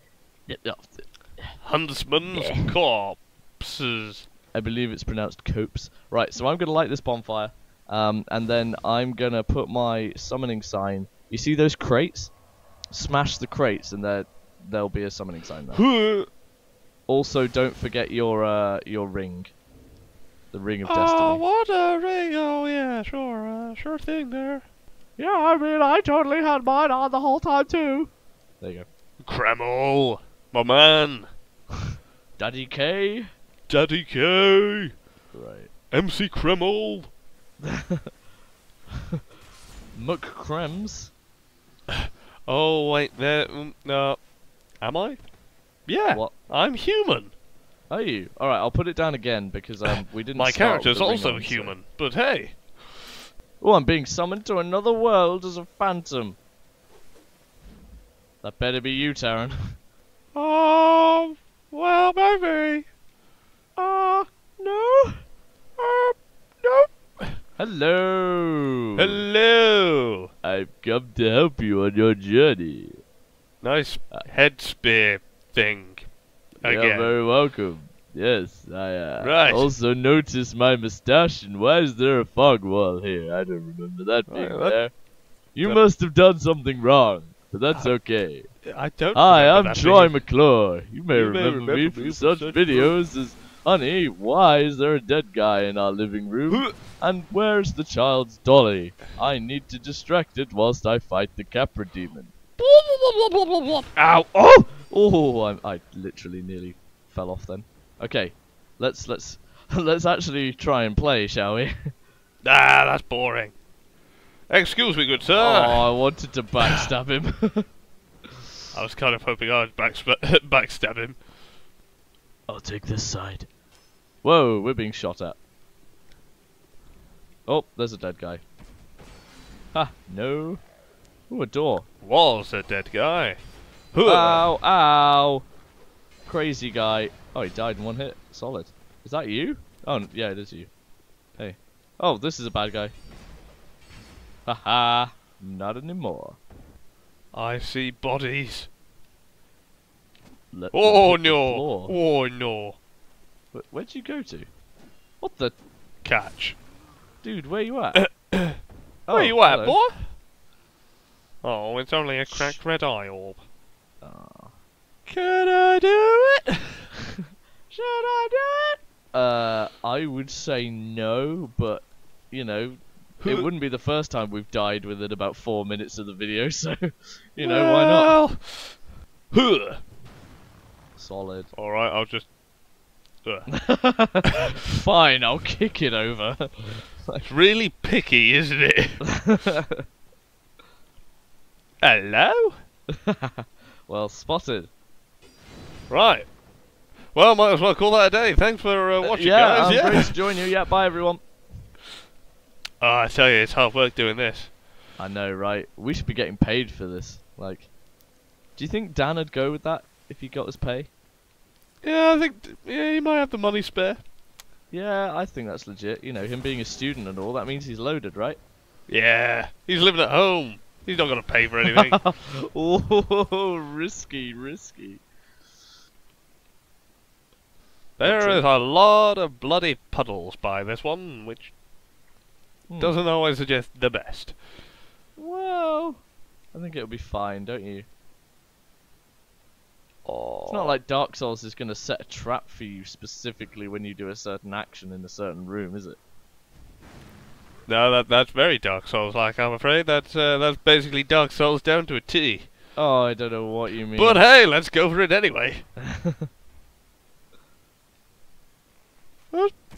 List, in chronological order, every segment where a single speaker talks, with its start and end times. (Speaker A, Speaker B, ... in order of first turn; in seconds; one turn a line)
Speaker A: 0.5-1.6
Speaker B: 1.6-4.3
Speaker A: 2.3-2.7
Speaker A: 4.5-12.4
Speaker A: 12.9-15.9
Speaker B: 15.7-16.3
Speaker A: 17.1-19.6
Speaker A: 20.5-21.4
Speaker B: 20.9-24.6
Speaker A: 25.2-28.9
Speaker B: 29.2-31.3
Speaker A: 32.4-33.3
Speaker B: 33.7-34.9
Speaker A: 35.3-35.7
Speaker B: 35.9-37.1
Speaker A: 37.6-38.1
Speaker A: 39.9-41.1
Speaker B: 42.5-44.3
Speaker B: 44.8-45.3
Speaker B: 45.8-47.3
Speaker A: 46.1-46.4
Speaker A: 47.9-51.8
Speaker B: 50.3-53.1
Speaker A: 53.6-56.4
Speaker A: 58.4-59.8
Speaker B: 60.3-62.9
Speaker A: 63.8-65.2
Speaker B: 65.8-67.4
Speaker A: 67.6-69.2
Speaker B: 69.0-70.3
Speaker A: 70.4-73.0
Speaker B: 73.6-77.2
Speaker A: 76.6-102.3
Speaker B: 79.2-79.7
Speaker B: 84.3-85.0
Speaker B: 85.5-85.9
Speaker B: 87.7-90.2
Speaker B: 91.1-93.0
Speaker B: 96.5-96.8
Speaker B: 102.6-103.9
Speaker A: 104.0-111.9
Speaker B: 112.4-113.5
Speaker B: 114.5-115.9
Speaker A: 115.4-117.7
Speaker B: 118.7-121.2
Speaker A: 122.5-123.5
Speaker A: 124.2-125.4
Speaker A: 127.5-128.4
Speaker A: 129.7-130.6
Speaker A: 131.3-131.9
Speaker B: 132.0-134.5
Speaker A: 134.1-135.5
Speaker A: 136.2-140.7
Speaker A: 141.4-142.9
Speaker A: 144.5-146.4
Speaker B: 147.3-148.7
Speaker A: 150.5-152.0
Speaker B: 150.7-152.8
Speaker A: 153.5-154.5
Speaker A: 155.2-155.6
Speaker B: 156.0-156.6
Speaker A: 157.2-158.1
Speaker B: 157.9-158.6
Speaker A: 159.1-159.8
Speaker B: 159.1-160.1
Speaker B: 161.4-163.4
Speaker A: 162.3-162.6
Speaker A: 164.0-164.6
Speaker B: 165.1-166.8
Speaker A: 167.7-178.2
Speaker B: 173.2-173.5
Speaker B: 177.4-178.8
Speaker B: 179.3-179.8
Speaker A: 181.0-181.5
Speaker B: 181.5-182.3
Speaker B: 183.2-183.6
Speaker A: 183.5-187.3
Speaker B: 187.2-189.3
Speaker A: 189.1-189.8
Speaker B: 191.8-192.6
Speaker A: 193.0-194.7
Speaker B: 195.9-196.3
Speaker B: 197.1-200.2
Speaker A: 199.0-201.4
Speaker B: 202.8-204.5
Speaker A: 205.0-207.8
Speaker A: 208.5-210.9
Speaker B: 211.8-214.0
Speaker A: 214.7-218.4
Speaker B: 218.9-222.0
Speaker A: 221.7-225.1
Speaker B: 228.0-231.5
Speaker A: 228.0-228.5
Speaker A: 232.7-233.0
Speaker B: 232.8-234.4
Speaker A: 235.2-236.0
Speaker A: 236.5-237.9
Speaker B: 240.1-240.8
Speaker A: 240.5-246.0
Speaker B: 247.7-252.5
Speaker A: 252.8-254.2
Speaker B: 253.9-255.7
Speaker A: 255.9-256.3